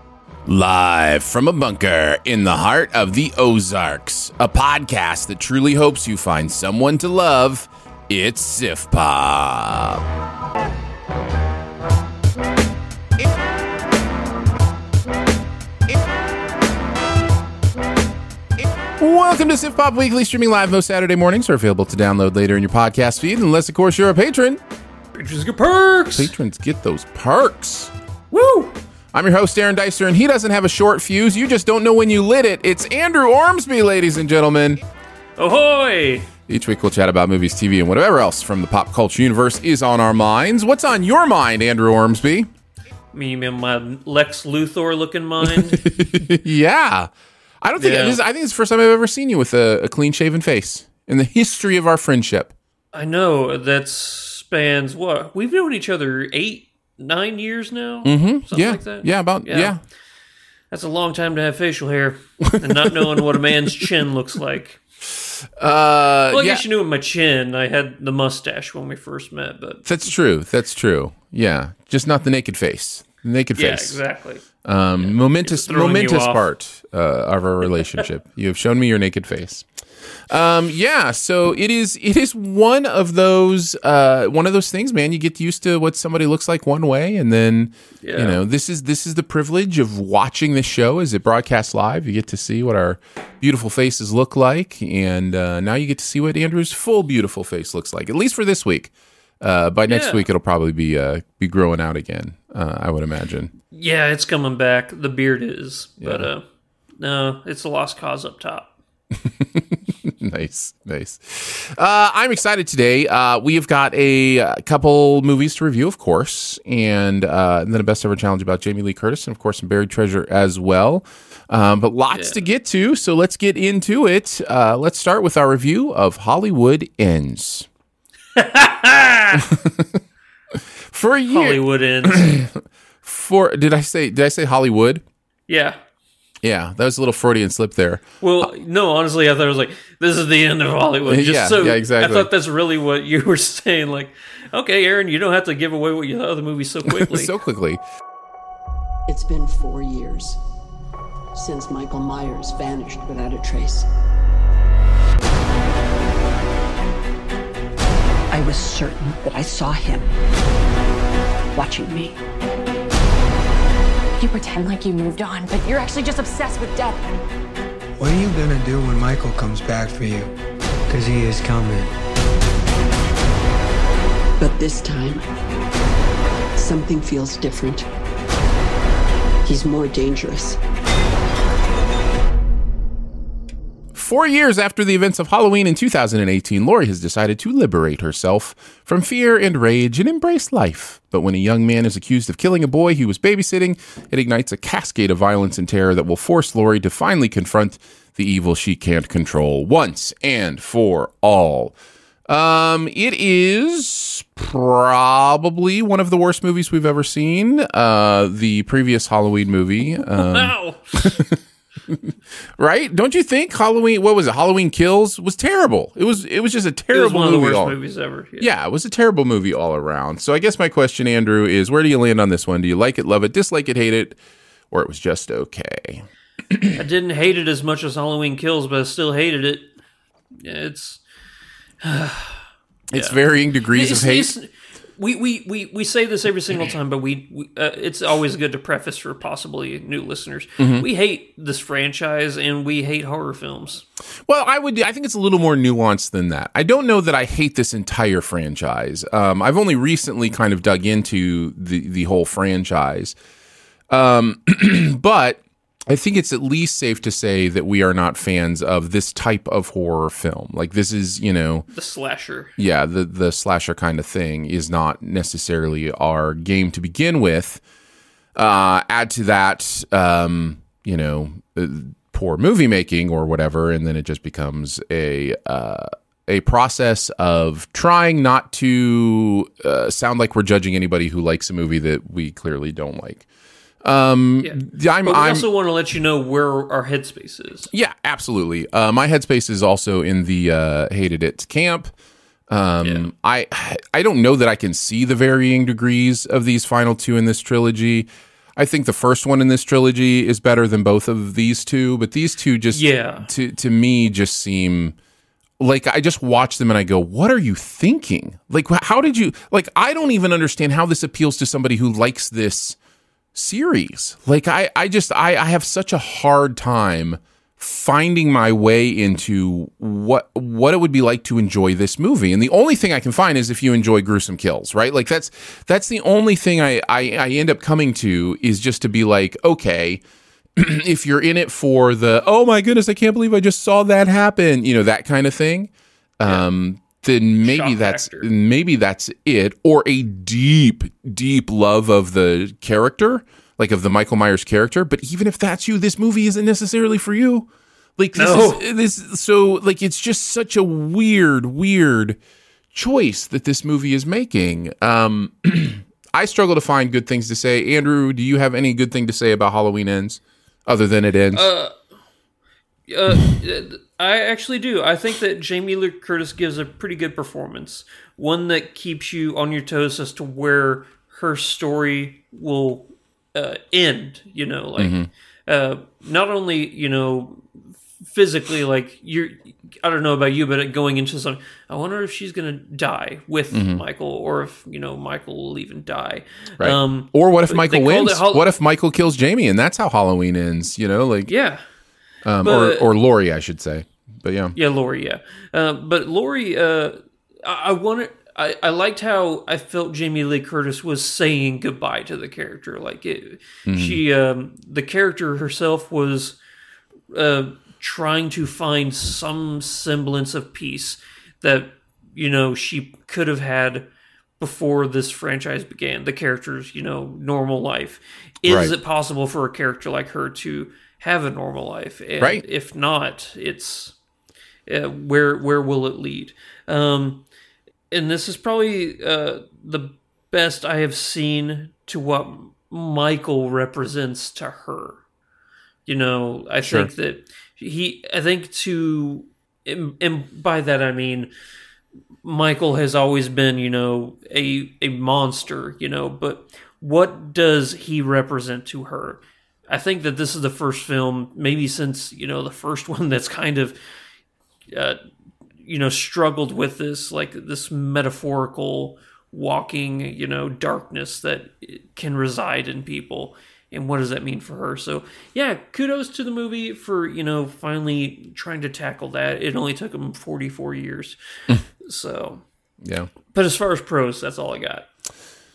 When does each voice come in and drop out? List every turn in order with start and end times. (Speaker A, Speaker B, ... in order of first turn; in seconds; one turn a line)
Speaker A: 0.5-10.1
Speaker A: 19.0-24.6
Speaker B: 25.1-26.3
Speaker A: 26.1-27.9
Speaker B: 28.3-28.7
Speaker A: 29.1-34.8
Speaker B: 35.4-36.3
Speaker A: 36.5-42.5
Speaker B: 43.1-45.9
Speaker A: 45.4-47.1
Speaker A: 47.6-52.5
Speaker B: 47.8-48.2
Speaker B: 52.9-59.8
Speaker A: 58.0-59.8
Speaker B: 60.7-64.8
Speaker A: 62.5-63.8
Speaker A: 65.6-66.6
Speaker B: 66.3-69.9
Speaker A: 69.9-74.0
Speaker B: 73.6-74.4
Speaker A: 74.6-79.7
Speaker B: 75.0-76.4
Speaker A: 80.3-103.5
Speaker B: 88.0-88.4
Speaker B: 99.9-100.2
Speaker B: 103.7-106.4
Speaker A: 106.0-106.3
Speaker B: 107.0-108.7
Speaker A: 109.2-127.7
Speaker B: 128.3-129.5
Speaker A: 129.4-130.0
Speaker A: 130.5-135.0
Speaker B: 131.3-132.5
Speaker B: 135.5-135.8
Speaker A: 136.4-138.5
Speaker B: 138.2-147.3
Speaker A: 141.1-142.3
Speaker A: 146.9-147.8
Speaker C: 149.1-150.4
Speaker C: 151.3-153.9
Speaker C: 158.3-160.1
Speaker C: 161.5-162.2
Speaker D: 164.2-167.0
Speaker E: 168.0-170.3
Speaker E: 170.9-171.9
Speaker C: 174.4-175.2
Speaker C: 176.6-177.9
Speaker C: 179.5-180.6
Speaker A: 183.9-201.8
Speaker A: 202.3-217.8
Speaker B: 210.1-211.2
Speaker B: 216.9-218.5
Speaker A: 218.4-224.2
Speaker A: 224.7-226.8
Speaker B: 226.7-229.7
Speaker B: 230.3-231.0
Speaker B: 231.8-233.2
Speaker A: 232.9-234.3
Speaker B: 233.7-243.8
Speaker A: 240.6-240.9
Speaker A: 244.3-253.2
Speaker A: 253.9-261.7
Speaker B: 261.7-262.5
Speaker A: 262.6-267.6
Speaker A: 268.4-283.3
Speaker A: 283.8-285.5
Speaker B: 284.4-287.7
Speaker A: 287.7-291.9
Speaker A: 292.5-305.0
Speaker B: 302.7-303.3
Speaker A: 305.6-312.8
Speaker A: 313.4-330.0
Speaker A: 330.6-352.2
Speaker B: 337.4-338.3
Speaker B: 348.2-348.6
Speaker A: 352.7-361.5
Speaker B: 361.3-361.7
Speaker B: 362.9-388.5
Speaker A: 374.8-375.1
Speaker A: 383.5-383.8
Speaker A: 386.6-391.3
Speaker B: 391.3-391.6
Speaker A: 392.2-394.6
Speaker B: 392.4-392.9
Speaker B: 394.6-406.4
Speaker A: 403.7-404.0
Speaker B: 407.1-413.9
Speaker B: 414.4-423.9
Speaker A: 418.5-418.7
Speaker B: 424.7-427.2
Speaker B: 427.9-435.0
Speaker B: 435.9-441.3
Speaker A: 436.6-436.9
Speaker B: 442.2-453.8
Speaker B: 454.7-455.0
Speaker B: 455.6-471.2
Speaker B: 471.8-472.4
Speaker A: 472.8-473.1
Speaker B: 473.3-474.9